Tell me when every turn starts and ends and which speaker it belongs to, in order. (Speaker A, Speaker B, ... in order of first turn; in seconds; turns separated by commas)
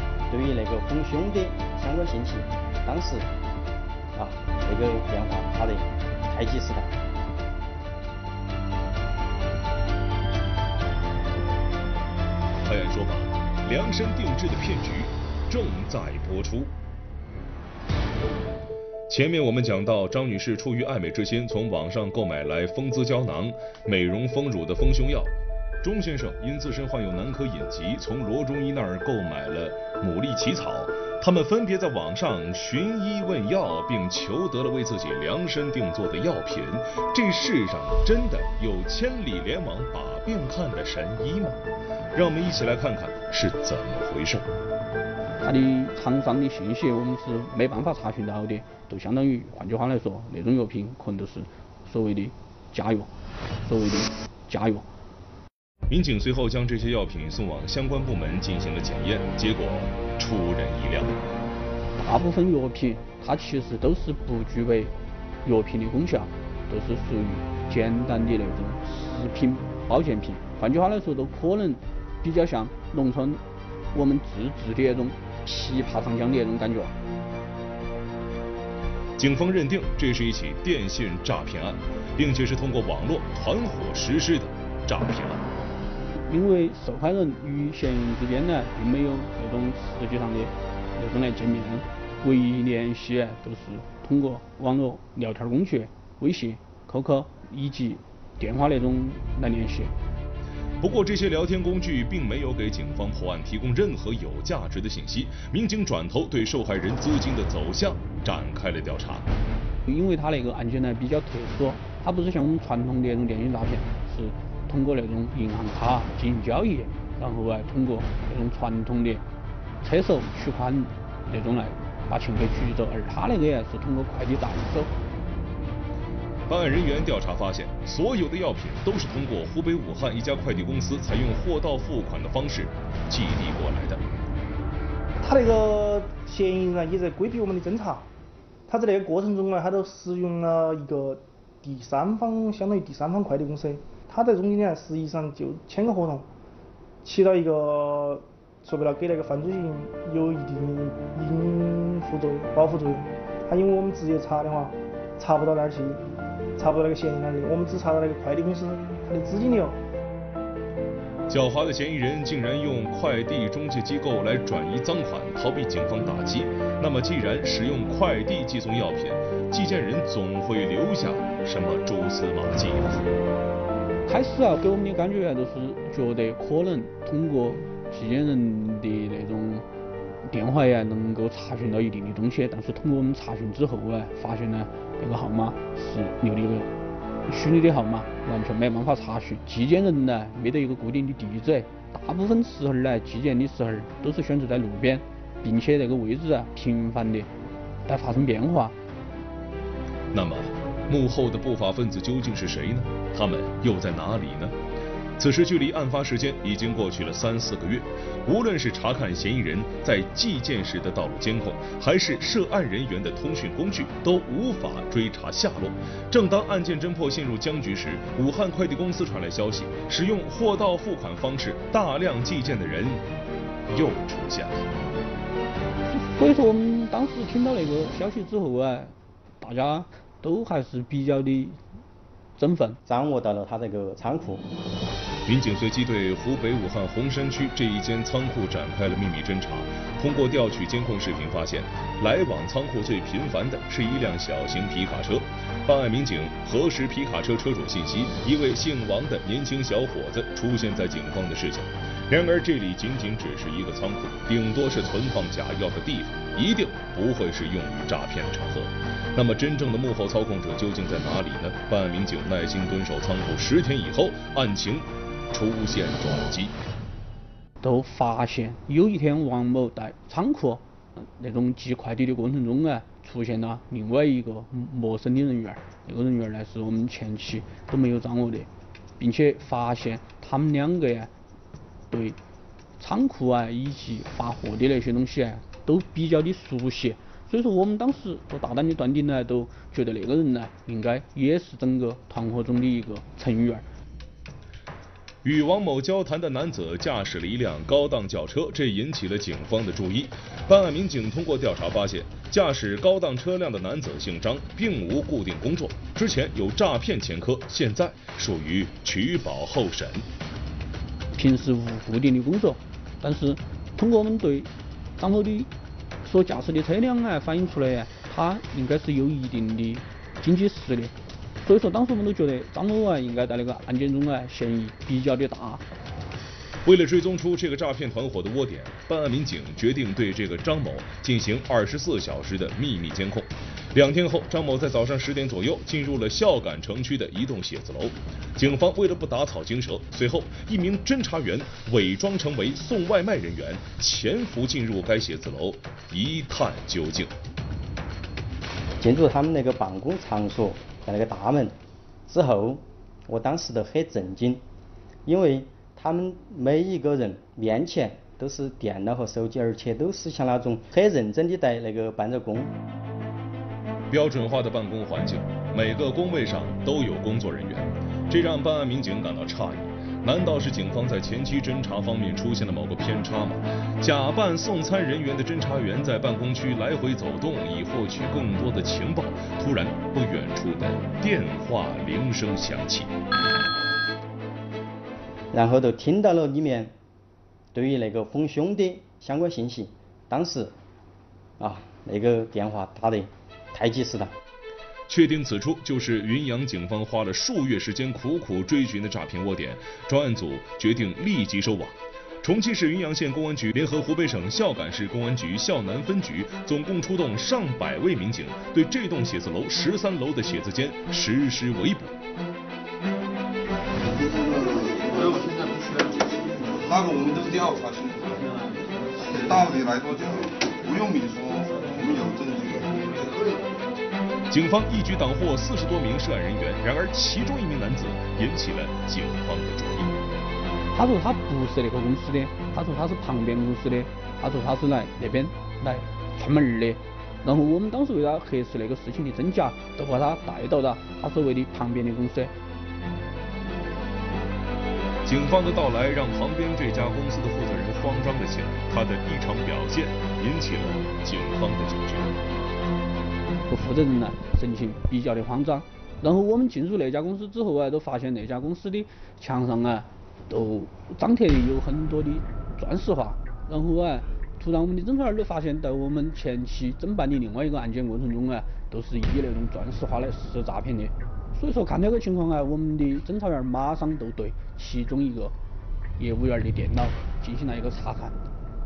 Speaker A: 0.3-3.3, Speaker A: 4.1-7.0, Speaker B: 12.6-16.7, Speaker B: 19.1-41.6, Speaker B: 42.1-44.5, Speaker C: 45.4-53.1, Speaker C: 53.6-54.9, Speaker B: 55.9-61.2, Speaker C: 62.0-64.9, Speaker C: 65.4-73.4, Speaker C: 73.9-76.9, Speaker B: 79.2-85.4, Speaker C: 86.3-99.9, Speaker B: 100.8-109.2, Speaker C: 109.8-119.2, Speaker C: 119.8-124.9, Speaker B: 126.5-134.0, Speaker D: 135.2-138.1, Speaker D: 138.7-146.3, Speaker D: 147.0-156.0, Speaker D: 156.6-159.8, Speaker B: 161.3-173.1, Speaker C: 174.1-179.6, Speaker C: 180.3-186.7, Speaker C: 187.3-197.3, Speaker C: 197.8-198.8, Speaker B: 200.1-204.5, Speaker B: 205.2-223.0, Speaker B: 223.7-224.6, Speaker C: 225.9-231.6, Speaker C: 232.4-232.8, Speaker A: 232.8-234.5, Speaker B: 235.2-266.6, Speaker C: 267.6-281.1, Speaker C: 281.9-282.2, Speaker C: 282.8-293.6, Speaker B: 295.2-310.1, Speaker C: 311.1-315.5, Speaker C: 316.0-325.6, Speaker B: 326.6-347.1, Speaker A: 348.8-354.4, Speaker A: 355.0-362.5, Speaker B: 363.9-382.9, Speaker A: 385.3-386.8, Speaker A: 387.5-390.6, Speaker A: 391.4-394.1, Speaker B: 394.9-411.9, Speaker E: 413.9-423.6, Speaker B: 424.3-429.9, Speaker C: 430.7-442.3, Speaker B: 445.0-452.2, Speaker C: 453.5-475.3, Speaker C: 476.0-478.2